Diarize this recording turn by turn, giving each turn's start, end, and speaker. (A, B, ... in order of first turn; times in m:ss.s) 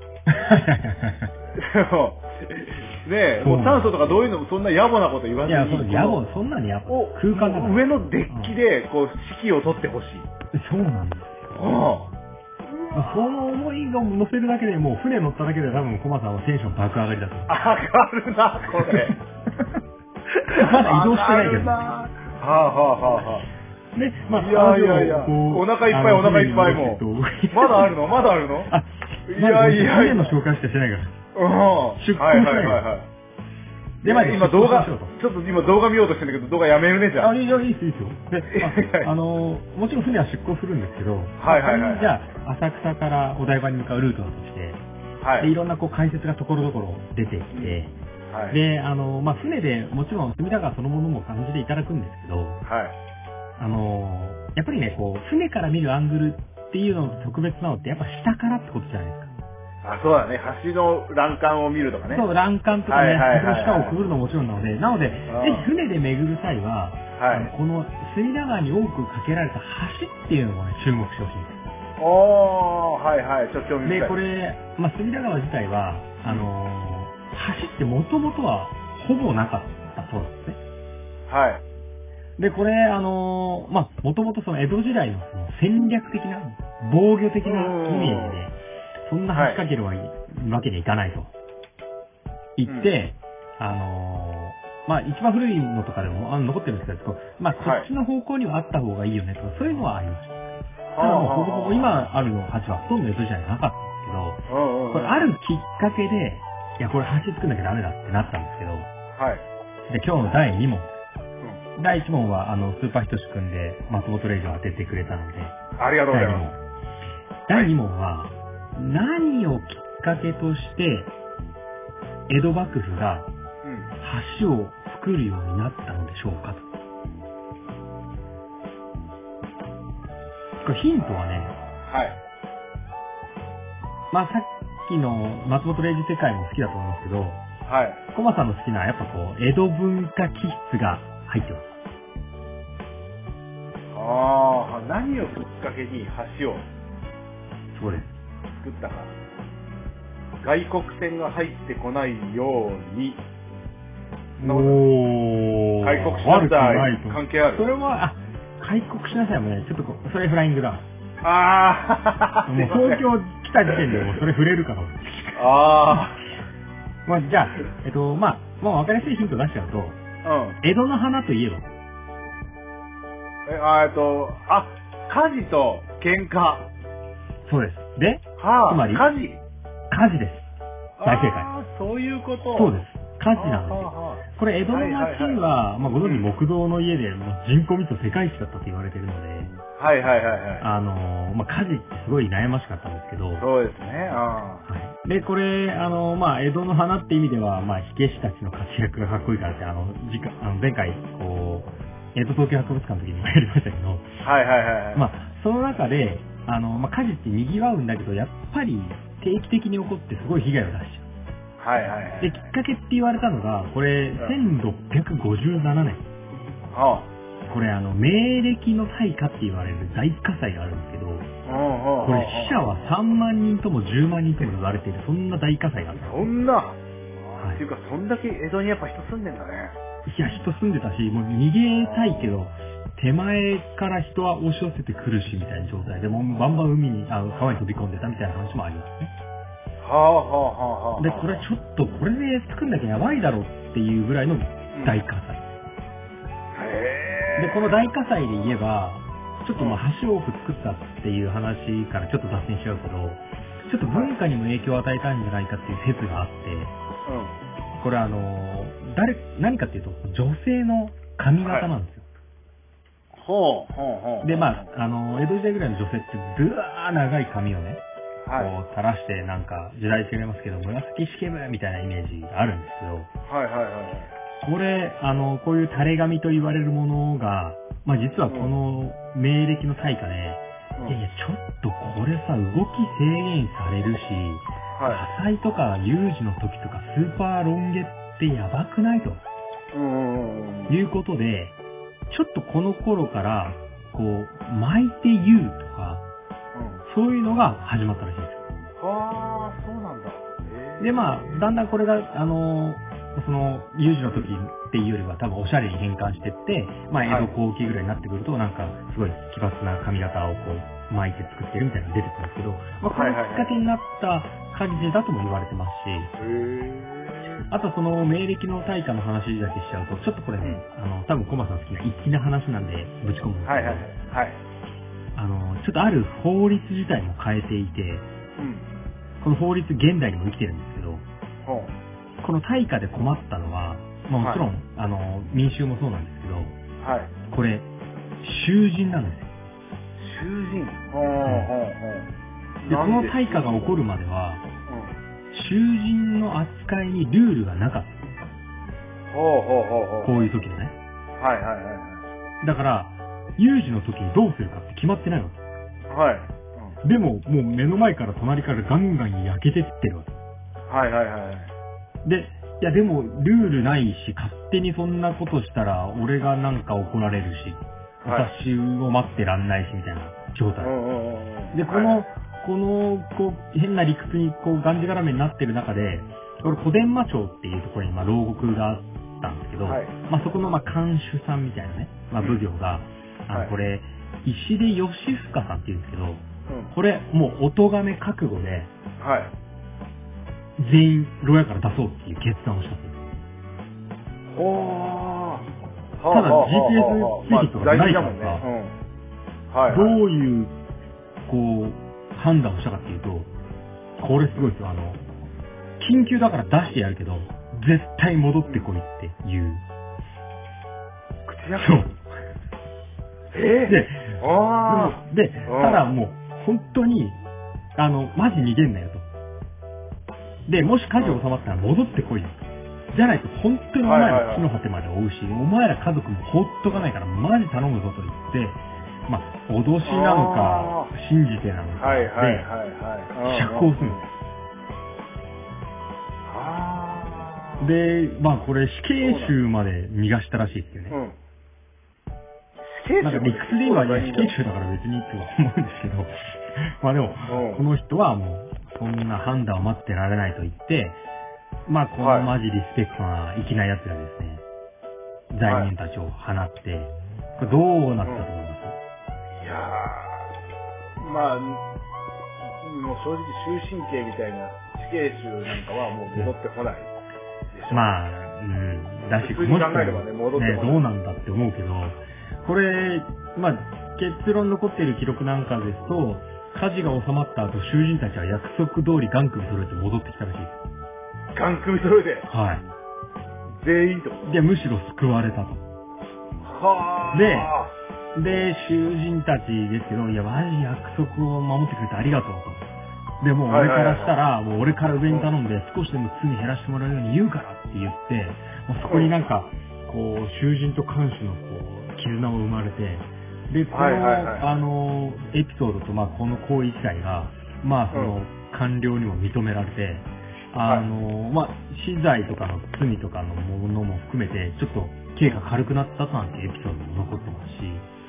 0:00.3-0:01.3 A
0:01.6-0:06.2 B
0:03.4-0:04.2 A
0:05.5-0:08.6 A
0:06.9-0:10.3 B
0:10.5-0:11.5 A
0:11.5-0:12.1 B
0:12.6-0:13.4 B
0:12.9-0:17.7 A
0:17.5-0:19.2 B
0:18.8-0:19.7 A
0:20.3-0:23.5 B
0:20.5-0:21.8 A
0:23.9-0:28.0 A
0:24.3-0:28.7 B
0:28.7-0:31.1 A
0:29.3-0:30.4 B
0:31.4-0:33.1 B
0:32.0-0:32.8 A
0:34.0-0:35.1 A
0:34.0-0:37.3 B
0:37.2-0:44.8 A
0:38.5-0:39.1 B
0:41.4-0:42.1 B
0:45.2-0:45.5 B
0:45.4-0:47.9 A
0:47.5-0:47.8 B
0:48.3-0:48.6 B
0:48.5-0:52.6 A
0:52.7-0:53.0 B
0:53.6-0:59.3 A
0:59.8-1:02.2 B
1:02.1-1:11.6 A
1:02.9-1:04.0 B
1:05.3-1:05.7 B
1:07.2-1:07.5 B
1:12.0-1:14.2 B
1:13.8-1:20.6 A
1:21.3-1:21.6 B
1:22.4-1:28.6 A
1:27.4-1:28.4 B
1:29.1-1:31.3 A
1:29.3-1:29.6 B
1:32.6-1:40.4 A
1:32.7-1:32.9 B
1:37.6-1:37.9 B
1:40.9-1:42.0 B
1:41.0-1:48.9 A
1:44.5-1:45.2 B
1:49.2-1:49.4 B
1:49.9-1:50.9 A
1:51.8-1:55.6 A
1:55.8-1:56.6 B
1:56.1-1:56.6 A
1:57.5-2:01.1 A
2:02.3-2:03.3 A
2:03.6-2:03.9 B
2:04.0-2:06.7 A
2:10.6-2:11.6 A
2:11.8-2:12.2 B
2:14.1-2:17.4 A
2:17.7-2:18.0 B
2:18.1-2:21.7 A
2:23.9-2:26.6 B
2:27.7-2:28.1 A
2:28.6-2:29.1 B
2:30.4-2:33.2 B
2:34.4-2:40.8 A
2:34.4-2:34.8 B
2:35.8-2:37.7 B
2:41.2-2:43.0 B
2:42.5-2:46.1 A
2:43.7-2:44.2 B
2:45.4-2:46.2 B
2:47.1-2:50.0 A
2:50.2-2:50.6 B
2:50.6-2:51.7 A
2:53.5-2:56.7 B
2:57.5-2:59.1 A
2:58.4-2:59.4 B
2:59.9-3:00.4 A
3:01.0-3:02.8 B
3:01.0-3:01.5 A
3:02.6-3:09.5 A
3:03.3-3:05.4 B
3:09.8-3:10.7 B
3:10.6-3:13.5 A
3:13.4-3:14.7 B
3:14.7-3:24.1 A
3:24.2-3:25.1 B
3:24.9-3:31.1 A
3:31.6-3:32.5 B
3:32.2-3:36.0 A
3:36.7-3:37.1 B
3:37.5-3:41.3 A
3:41.5-3:42.6 B
3:42.0-3:46.3 A
3:46.0-3:49.8 B
3:47.4-3:47.6 A
3:50.1-3:59.1 A
3:51.8-3:52.3 B
3:59.8-4:01.4 B
4:01.0-4:05.4 A
4:04.7-4:05.0 B
4:06.5-4:07.8 B
4:07.4-4:16.7 A
4:13.9-4:14.1 B
4:17.1-4:17.3 B
4:17.8-4:22.1 A
4:21.4-4:21.7 B
4:23.2-4:24.7 B
4:24.2-4:27.8 A
4:28.2-4:28.5 B
4:28.4-4:33.1 A
4:33.3-4:34.1 B
4:34.4-4:49.2 A
4:44.8-4:45.1 B
4:49.7-4:50.8 B
4:50.7-4:51.6 A
4:52.1-4:56.0 A
4:56.6-4:56.8 B
4:56.9-4:58.5 A
4:58.8-5:01.4 B
5:00.8-5:16.1 A
5:07.1-5:07.3 B
5:12.9-5:13.6 B
5:16.2-5:17.5 B
5:17.5-5:23.9 A
5:23.5-5:24.4 B
5:25.2-5:28.1 A
5:28.4-5:28.6 B
5:29.2-5:31.0 A
5:31.4-5:31.7 B
5:32.2-5:36.6 A
5:34.2-5:34.4 B
5:36.8-5:37.1 B
5:37.3-5:37.7 A
5:38.2-5:39.3 A
5:40.0-5:42.1 B
5:42.6-5:43.8 B
5:42.7-5:44.4 A
5:44.7-5:45.0 B
5:45.3-5:48.0 A
5:49.1-5:50.2 B
5:50.0-5:50.8 A
5:51.2-5:52.1 B
5:52.4-5:55.4 A
5:55.9-5:56.8 B
5:56.8-6:00.2 A
6:00.7-6:01.5 B
6:02.0-6:10.7 A
6:08.0-6:08.3 B
6:10.6-6:12.1 B
6:11.5-6:28.7 A
6:19.6-6:20.0 B
6:22.2-6:22.4 B
6:26.5-6:26.7 B
6:29.0-6:29.3 B
6:30.6-6:33.0 A
6:34.3-6:35.5 B
6:36.0-6:38.8 B
6:36.1-6:38.4 A
6:39.5-6:40.0 B
6:39.7-6:40.5 A
6:41.3-6:43.3 A
6:44.0-6:45.0 A
6:45.8-6:49.6 A
6:51.3-6:51.8 B
6:51.6-6:52.0 A
6:53.3-6:55.8 B
6:53.7-6:57.2 A
6:57.8-6:59.0 A
7:00.5-7:12.5 A
7:03.8-7:04.5 B
7:09.8-7:10.9 B
7:11.8-7:14.1 B
7:13.2-7:14.0 A
7:16.3-7:17.7 B
7:17.6-7:21.0 A
7:19.0-7:19.4 B
7:20.9-7:21.2 B
7:22.7-7:24.3 B
7:23.0-7:31.0 A
7:27.3-7:27.6 B
7:31.7-7:34.4 A
7:32.0-7:32.3 B
7:35.3-7:38.8 A
7:35.4-7:35.7 B
7:38.0-7:38.3 B
7:39.4-7:40.3 B
7:41.0-7:41.6 B
7:42.6-7:46.9 B
7:47.5-7:47.9 B
7:47.7-8:00.6 A
7:49.2-7:50.8 B
8:01.4-8:02.3 B
8:02.3-8:02.6 A
8:03.6-8:04.3 B
8:04.2-8:05.6 A
8:06.4-8:07.7 B
8:07.1-8:07.5 A
8:08.2-8:12.7 A
8:13.2-8:37.9 A
8:13.5-8:14.1 B
8:18.9-8:19.1 B
8:23.7-8:24.6 B